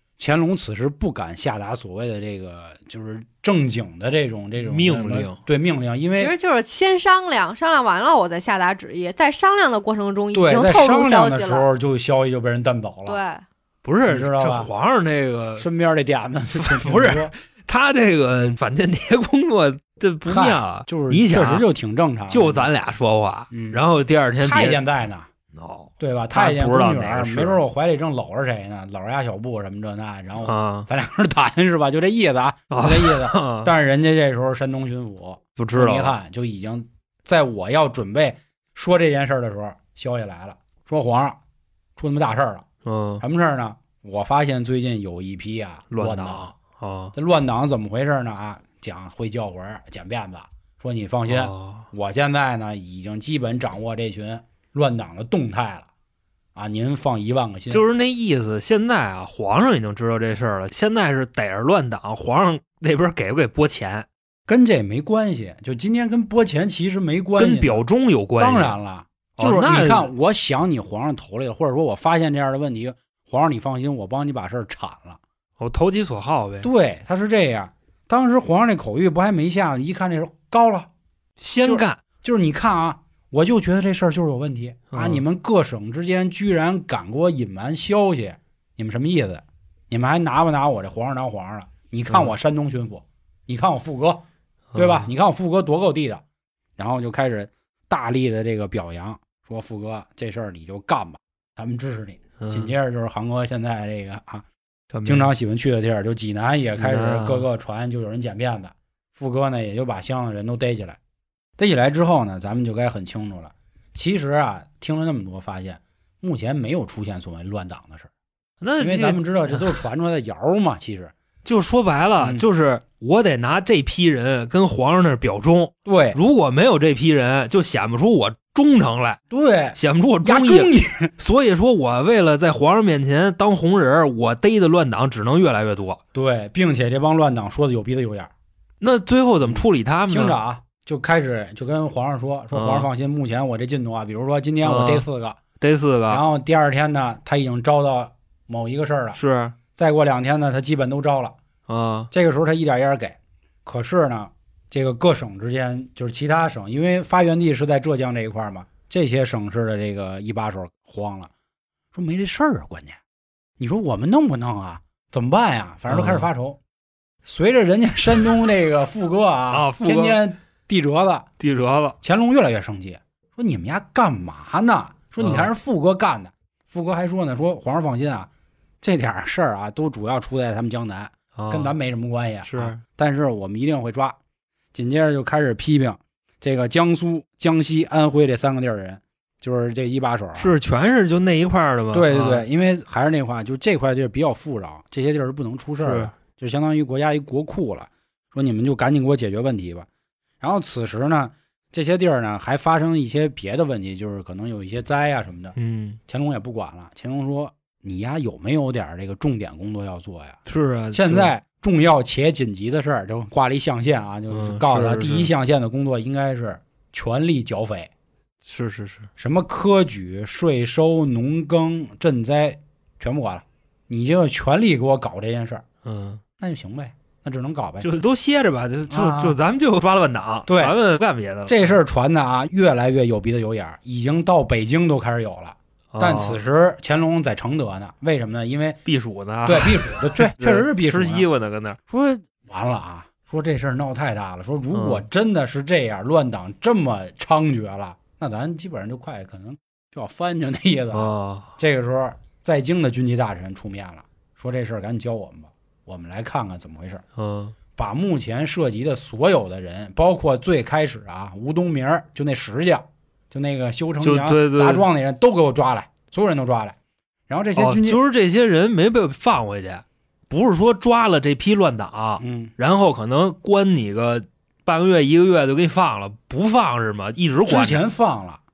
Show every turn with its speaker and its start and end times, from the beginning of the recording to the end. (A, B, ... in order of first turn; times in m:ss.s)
0:00.2-0:06.3 A
0:04.6-0:05.4 B
0:06.1-0:11.7 C
0:10.3-0:13.2 A
0:13.1-0:13.4 C
0:13.8-0:15.7 B
0:14.1-0:14.7 A
0:15.6-0:17.3 A
0:16.6-0:21.6 B
0:20.2-0:22.7 A
0:22.3-0:24.8 B
0:23.5-0:23.8 A
0:24.4-0:25.3 A
0:25.5-0:27.6 B
0:26.0-0:41.4 A
0:30.4-0:30.9 B
0:32.7-0:33.7 B
0:35.6-0:36.2 B
0:42.0-0:42.6 A
0:42.8-0:43.2 B
0:43.2-0:46.5 A
0:45.9-0:47.2 B
0:47.2-0:55.9 A
0:51.3-0:51.9 B
0:56.6-0:57.8 A
0:57.7-1:04.1 B
1:04.5-1:07.8 A
1:07.4-1:08.8 B
1:08.4-1:15.2 A
1:09.4-1:10.1 B
1:15.6-1:16.7 B
1:16.6-1:20.9 A
1:21.4-1:22.0 B
1:21.6-1:34.2 A
1:24.9-1:25.2 B
1:32.1-1:32.4 B
1:34.7-1:35.1 B
1:34.8-1:36.2 A
1:36.8-1:44.4 A
1:42.4-1:42.7 B
1:44.9-1:45.3 B
1:45.0-1:51.0 A
1:46.7-1:47.5 B
1:51.6-1:58.1 A
1:58.6-1:59.8 B
1:58.8-2:01.1 A
2:01.4-2:09.2 B
2:02.2-2:02.4 A
2:05.8-2:06.2 A
2:09.3-2:11.1 A
2:09.8-2:16.0 B
2:16.1-2:18.3 A
2:18.8-2:20.4 B
2:19.4-2:25.4 A
2:22.5-2:22.9 B
2:24.6-2:25.1 B
2:25.6-2:26.2 B
2:26.1-2:29.2 A
2:29.2-2:29.6 B
2:29.8-2:31.4 A
2:31.7-2:32.1 B
2:32.1-2:41.3 A
2:41.9-2:43.0 A
2:43.6-2:46.6 A
2:45.9-2:46.3 B
2:47.2-2:51.3 A
2:49.5-2:50.2 B
2:51.4-2:52.0 B
2:52.0-2:58.3 A
2:55.2-2:55.5 B
2:58.8-3:04.2 A
3:01.4-3:01.8 B
3:02.4-3:02.8 B
3:04.7-3:10.5 A
3:10.4-3:12.4 B
3:11.9-3:19.9 A
3:15.8-3:16.1 B
3:20.4-3:25.6 A
3:25.6-3:26.0 B
3:26.1-3:30.4 A
3:30.5-3:31.3 B
3:30.9-3:37.9 A
3:34.3-3:35.3 B
3:38.4-3:39.1 B
3:39.2-3:45.6 A
3:45.8-3:46.2 B
3:46.4-3:47.9 A
3:47.8-3:51.8 B
3:48.9-3:49.4 A
3:50.5-3:50.8 A
3:51.5-3:58.8 A
3:55.9-3:56.4 B
3:58.8-4:01.8 B
3:59.4-4:01.3 A
4:01.9-4:17.0 A
4:04.7-4:05.1 B
4:10.9-4:11.6 B
4:17.2-4:17.6 B
4:17.8-4:26.8 A
4:24.0-4:24.9 B
4:27.3-4:28.0 A
4:27.6-4:37.8 B
4:32.2-4:32.5 A
4:37.5-4:38.4 A